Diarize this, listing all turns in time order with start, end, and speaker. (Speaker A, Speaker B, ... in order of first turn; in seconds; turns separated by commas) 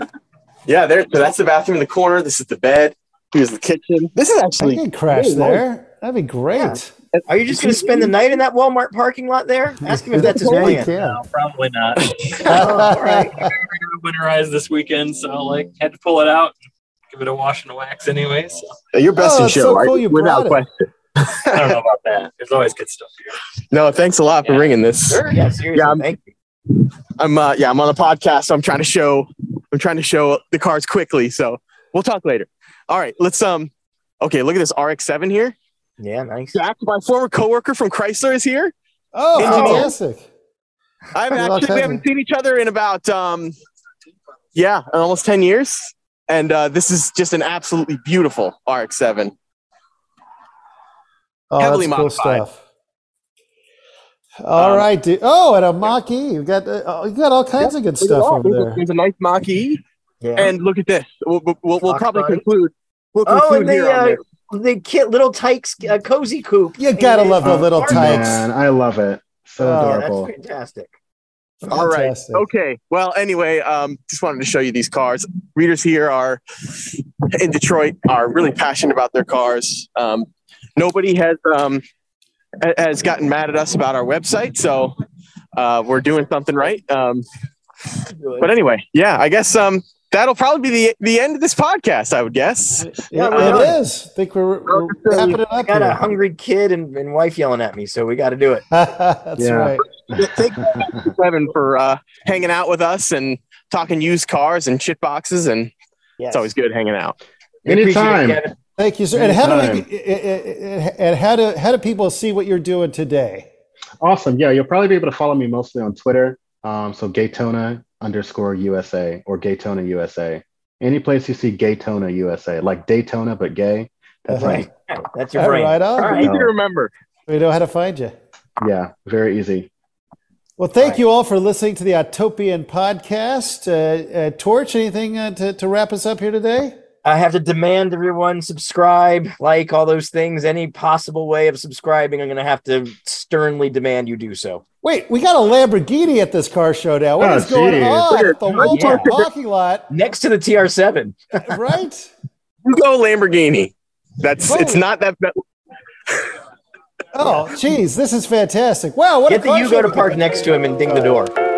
Speaker A: 0.7-5.6, Speaker B: 4.6-6.9, Speaker C: 6.5-10.9, Speaker A: 7.1-8.4, Speaker B: 9.8-11.2, Speaker A: 10.4-10.8, Speaker D: 10.7-12.7, Speaker C: 12.5-13.5, Speaker B: 12.5-13.5, Speaker D: 13.3-16.5, Speaker D: 17.1-18.7, Speaker A: 18.9-21.8, Speaker B: 19.2-20.6, Speaker D: 21.5-23.4, Speaker A: 23.7-26.1, Speaker C: 25.1-26.3, Speaker A: 26.7-33.7, Speaker A: 34.2-35.5, Speaker C: 36.0-36.6, Speaker A: 36.5-38.7, Speaker B: 39.1-40.3, Speaker A: 39.4-39.9, Speaker C: 39.4-39.9, Speaker A: 41.1-43.5, Speaker B: 41.3-42.0, Speaker A: 44.5-49.3, Speaker B: 51.5-52.5, Speaker A: 51.6-52.4, Speaker B: 54.4-58.8, Speaker A: 54.5-54.9, Speaker A: 57.6-59.8, Speaker C: 60.2-60.5, Speaker A: 60.4-64.2, Speaker C: 61.8-62.4, Speaker C: 63.2-68.4, Speaker B: 66.8-68.4, Speaker E: 67.4-70.3, Speaker B: 69.6-70.0, Speaker C: 69.7-70.9, Speaker A: 71.7-81.8, Speaker B: 71.7-72.4, Speaker A: 82.6-84.9, Speaker A: 85.6-87.2, Speaker C: 88.1-88.5, Speaker A: 88.4-93.7, Speaker B: 92.8-96.0, Speaker C: 93.1-93.8, Speaker A: 94.7-95.4, Speaker C: 95.7-98.6, Speaker B: 98.7-99.8, Speaker E: 99.4-101.1, Speaker A: 100.0-105.7, Speaker C: 106.2-106.5, Speaker A: 106.3-107.2, Speaker E: 107.6-108.4, Speaker C: 107.6-108.5, Speaker B: 108.8-113.5, Speaker E: 109.1-109.8, Speaker E: 114.0-124.7, Speaker B: 124.3-124.6, Speaker C: 124.3-126.2, Speaker B: 125.3-126.3, Speaker A: 126.0-126.9, Speaker E: 126.1-126.5, Speaker B: 127.3-128.1, Speaker E: 128.6-129.7, Speaker B: 130.6-136.7, Speaker C: 137.0-144.6, Speaker B: 144.8-149.9, Speaker E: 147.2-148.0, Speaker A: 148.0-149.2, Speaker C: 148.6-149.1, Speaker C: 149.9-151.6, Speaker B: 151.4-152.1, Speaker A: 152.6-155.3, Speaker B: 154.5-154.8, Speaker B: 157.1-161.2, Speaker C: 159.3-161.3